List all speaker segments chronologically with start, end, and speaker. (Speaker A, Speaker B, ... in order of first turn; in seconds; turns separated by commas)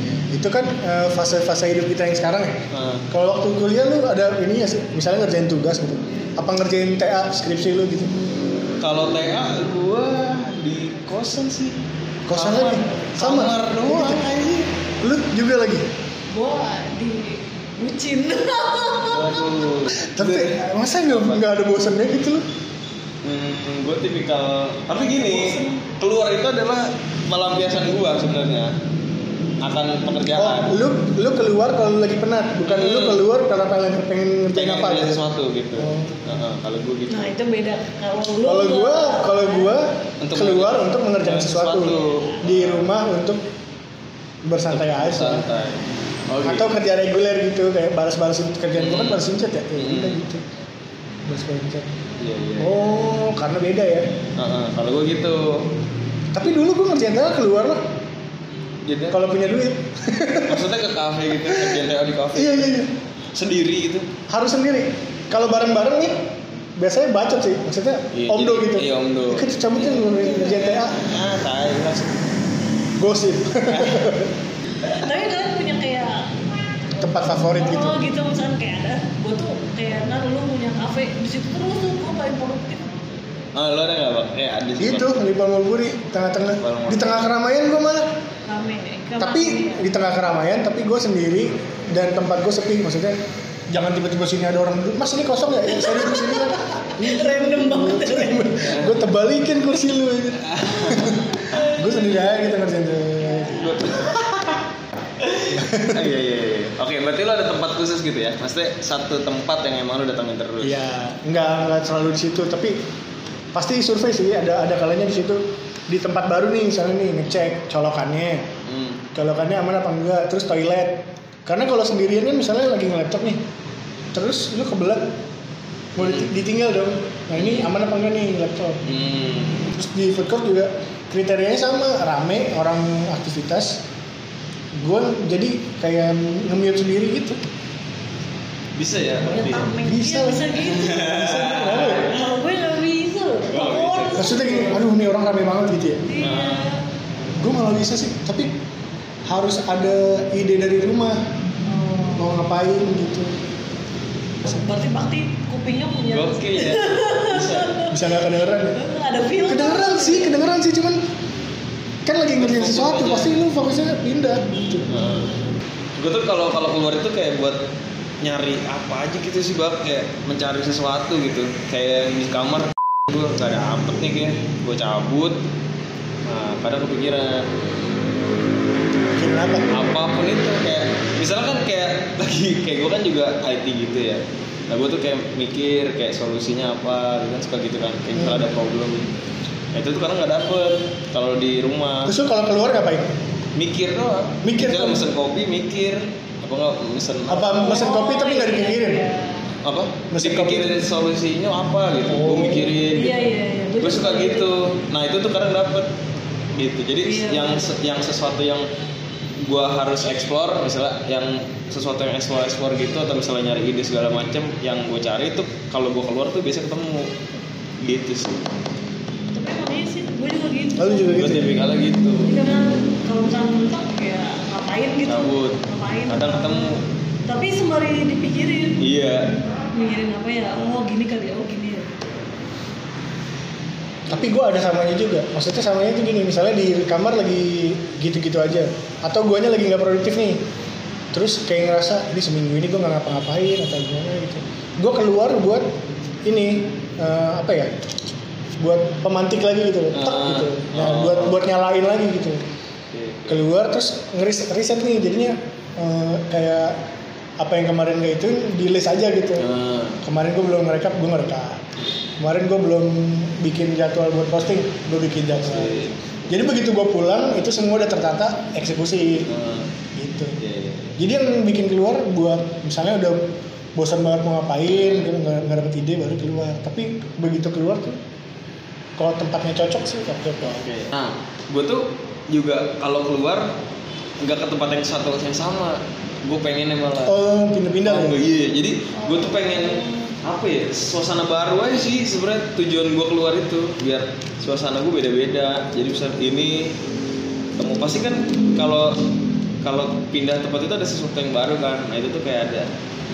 Speaker A: 0.3-8.1, Speaker B: 2.7-3.0, Speaker B: 8.8-11.8, Speaker A: 12.3-14.2, Speaker B: 12.3-14.7, Speaker A: 15.0-15.8, Speaker C: 16.3-19.9, Speaker B: 19.1-21.4, Speaker A: 19.9-22.4, Speaker B: 23.2-28.7, Speaker C: 24.9-25.8, Speaker B: 29.6-30.7, Speaker A: 30.3-35.2, Speaker B: 32.6-33.3, Speaker B: 34.5-37.3, Speaker A: 35.8-36.2, Speaker C: 37.1-39.8, Speaker A: 38.4-43.4, Speaker B: 40.2-43.0, Speaker A: 44.4-45.5, Speaker B: 44.7-46.7, Speaker A: 46.4-50.4, Speaker B: 48.8-49.2, Speaker B: 49.8-50.2, Speaker A: 51.3-51.9, Speaker B: 52.2-53.0, Speaker A: 52.6-54.0, Speaker B: 54.4-55.7, Speaker A: 56.3-57.8, Speaker B: 58.8-59.2, Speaker A: 59.1-60.6, Speaker B: 60.5-62.7, Speaker A: 61.5-61.8, Speaker A: 62.3-62.9, Speaker B: 63.3-64.1, Speaker A: 64.3-66.1, Speaker A: 66.8-71.0, Speaker B: 68.1-72.2, Speaker A: 73.0-74.3, Speaker B: 73.7-74.2, Speaker C: 74.8-76.3, Speaker A: 77.0-78.0, Speaker C: 77.3-83.5, Speaker B: 83.5-85.1, Speaker A: 84.8-88.0, Speaker B: 86.6-87.2, Speaker C: 88.5-89.9, Speaker A: 89.2-93.2, Speaker A: 93.7-103.8, Speaker C: 95.7-98.5, Speaker B: 98.6-99.0, Speaker B: 100.4-101.3, Speaker B: 103.5-104.7, Speaker B: 105.2-110.8, Speaker A: 105.5-106.1, Speaker A: 110.6-112.7, Speaker A: 113.5-118.5, Speaker B: 118.7-119.0, Speaker A: 119.1-123.4, Speaker A: 124.1-125.0, Speaker A: 126.0-128.8, Speaker B: 127.3-127.7, Speaker B: 128.8-129.7, Speaker A: 129.7-133.8, Speaker A: 134.8-137.4, Speaker B: 138.8-139.7, Speaker C: 139.3-141.2, Speaker A: 139.8-142.1, Speaker B: 140.6-142.2, Speaker C: 141.8-144.9, Speaker B: 143.5-144.3, Speaker A: 144.1-146.1, Speaker C: 146.0-146.9, Speaker B: 146.2-146.7, Speaker A: 147.4-148.5, Speaker A: 149.3-151.2, Speaker C: 151.6-152.3, Speaker A: 152.1-153.3, Speaker C: 154.4-158.1, Speaker B: 156.1-157.8, Speaker A: 157.8-158.8, Speaker C: 158.7-160.4, Speaker A: 159.4-161.0, Speaker A: 162.1-164.9, Speaker B: 162.4-163.3, Speaker B: 164.9-165.3, Speaker B: 165.9-167.6, Speaker B: 168.2-175.4, Speaker B: 176.2-177.5, Speaker A: 179.2-179.7, Speaker B: 179.7-189.1, Speaker A: 188.2-188.4, Speaker B: 189.7-192.1, Speaker A: 192.0-193.1, Speaker B: 193.6-197.6, Speaker A: 194.4-195.0, Speaker A: 197.3-199.0, Speaker C: 197.5-199.5, Speaker B: 199.6-205.9, Speaker A: 200.1-200.8, Speaker A: 202.1-202.7, Speaker C: 202.3-204.5, Speaker B: 206.5-208.7, Speaker C: 207.0-207.7, Speaker B: 209.4-217.1, Speaker B: 217.8-218.5, Speaker C: 219.3-221.3, Speaker A: 220.8-221.5, Speaker B: 221.1-222.3, Speaker C: 222.2-228.8, Speaker B: 225.1-226.8, Speaker B: 228.8-229.4, Speaker C: 229.6-232.0, Speaker A: 234.1-240.4, Speaker A: 241.1-245.7, Speaker A: 246.2-247.7, Speaker A: 248.6-252.5, Speaker B: 249.9-251.5, Speaker B: 252.9-253.5, Speaker A: 253.3-256.8, Speaker A: 257.4-259.5, Speaker B: 259.4-260.0, Speaker A: 260.0-261.6, Speaker A: 262.2-265.8, Speaker B: 265.3-266.0, Speaker A: 266.3-269.3, Speaker B: 269.3-269.7, Speaker A: 269.9-270.4, Speaker B: 270.4-271.0, Speaker A: 271.0-273.2, Speaker A: 273.8-278.0, Speaker B: 274.6-275.1, Speaker A: 279.0-280.6, Speaker B: 280.4-283.5, Speaker B: 284.2-287.2, Speaker A: 287.0-288.2, Speaker B: 287.8-296.8, Speaker C: 288.9-290.2, Speaker B: 297.6-299.0, Speaker B: 299.6-302.7